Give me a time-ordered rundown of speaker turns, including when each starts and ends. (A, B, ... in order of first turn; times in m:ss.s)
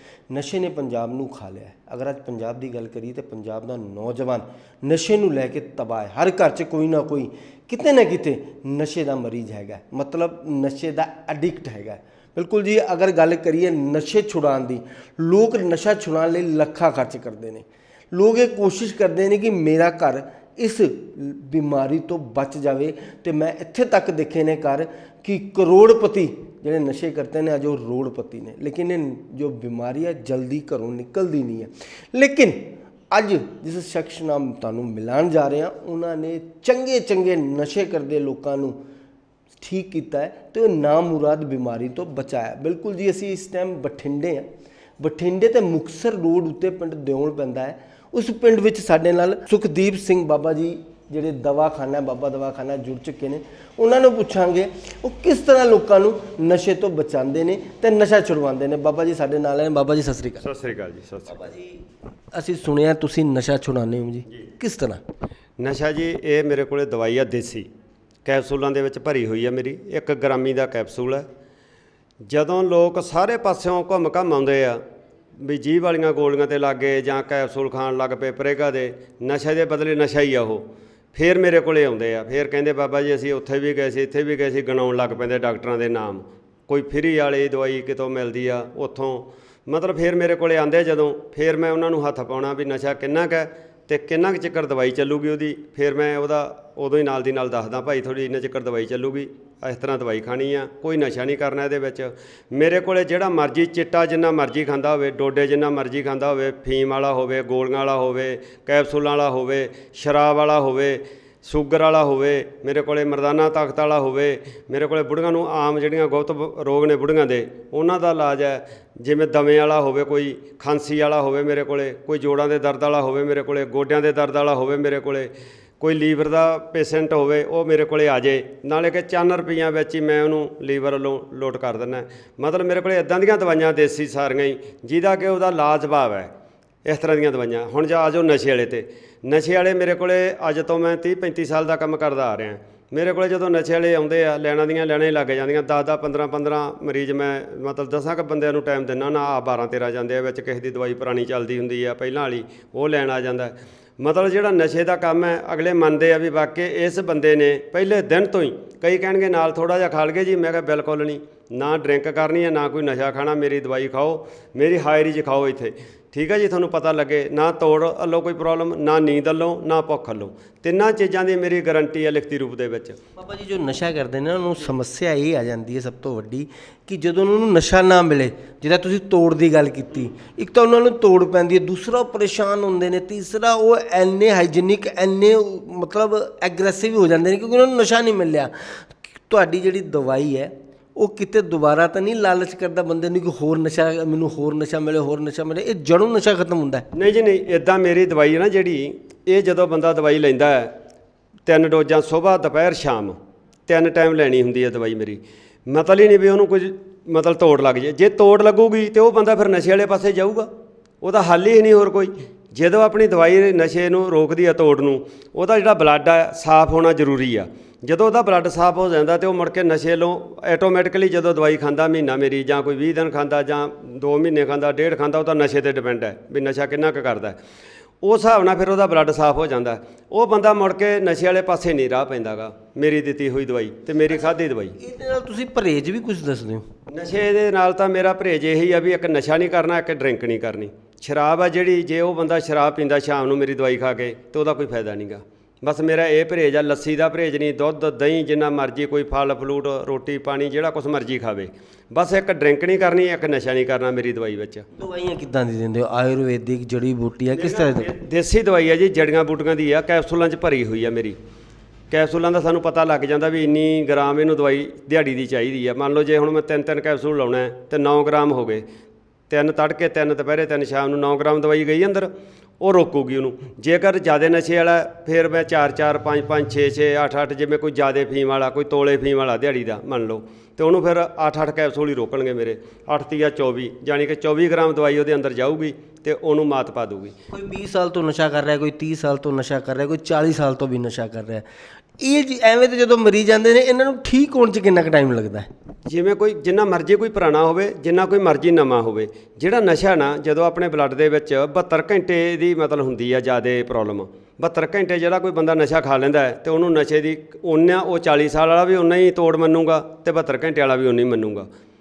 0:00.3-0:38.8 A
0:39.6-0:44.5 A
0:45.0-1:00.4 A
1:00.4-1:01.5 B
1:01.3-1:01.8 A
1:02.3-1:05.0 A
1:05.6-1:07.7 B
1:08.2-1:11.3 B
1:12.2-1:14.8 B
1:15.4-2:16.3 B
2:16.8-2:53.0 B
2:53.2-3:16.9 A
3:16.9-3:20.7 B
3:21.5-3:30.5 B
3:31.0-3:47.4 B
3:48.0-3:54.8 B
3:54.1-3:56.7 A
3:56.9-4:14.6 B
4:14.7-4:17.9 A
4:17.3-4:21.2 B
4:21.9-4:28.6 B
4:29.3-4:47.2 B
4:47.3-4:51.5 A
4:52.0-4:55.5 A
4:55.9-5:11.5 B